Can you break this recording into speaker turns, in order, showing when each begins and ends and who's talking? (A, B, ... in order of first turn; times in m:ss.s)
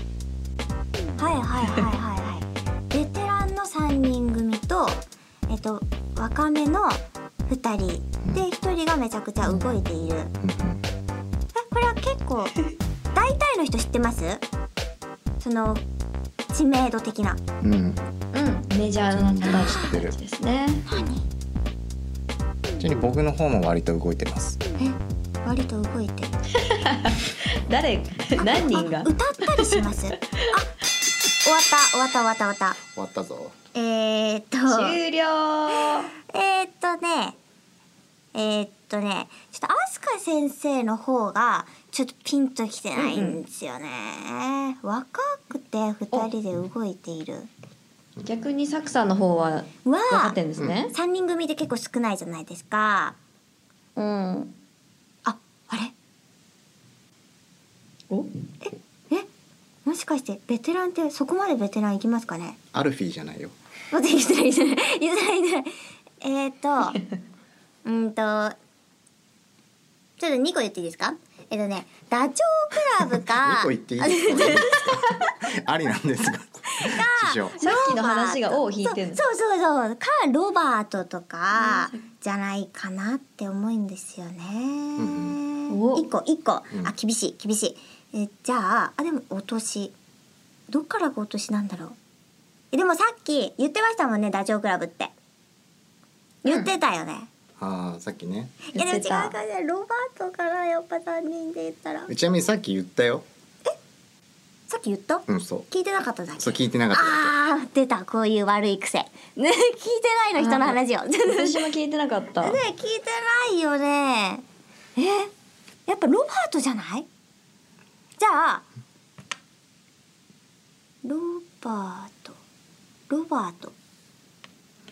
0:01.2-0:10.3 A
0:09.4-0:09.7 B
0:10.4-0:10.8 C
0:11.6-0:12.6 A
0:13.1-0:14.4 A
0:15.4-0:15.8 A
0:16.5-0:17.4 A
0:17.6-0:18.0 C
0:18.3-0:20.8 B
0:19.1-0:20.2 C
0:19.4-0:20.0 A
0:20.9-0:21.2 A
0:22.8-0:24.6 C
0:24.8-0:26.4 A
0:26.6-0:29.8 B
0:28.4-0:30.7 A
0:31.3-0:32.8 A
0:33.0-0:33.6 C
0:33.7-0:35.0 A
0:34.7-0:36.1 B
0:35.9-0:37.4 A
0:38.3-0:47.5 A
0:43.0-0:43.4 B
0:48.2-0:50.9 B
0:49.8-0:50.4 A
0:50.9-0:53.2 A
0:54.0-0:54.5 B
0:55.2-0:55.9 A
0:58.6-0:59.3 A
0:59.8-1:02.6 A
1:02.7-1:03.6 C
1:03.9-1:07.0 A
1:07.8-1:08.6 A
1:10.2-1:15.3 A
1:13.2-1:17.6 C
1:16.7-1:29.9 A
1:17.6-1:19.2 B
1:21.5-1:22.0 B
1:25.0-1:25.4 C
1:25.7-1:26.1 B
1:30.7-1:32.0 A
1:32.7-1:35.1 A
1:36.4-1:37.3 A
1:36.5-1:36.7 B
1:37.6-1:38.6 C
1:38.7-1:42.1 A
1:38.7-1:39.4 B
1:42.1-1:43.2 C
1:44.7-1:51.6 A
1:45.3-1:45.7 C
1:46.4-1:47.3 C
1:50.4-1:52.6 B
1:52.4-1:54.4 A
1:55.0-1:55.3 A
1:55.9-1:57.1 A
1:58.2-1:58.6 A
2:01.0-2:02.4 A
2:03.1-2:03.8 A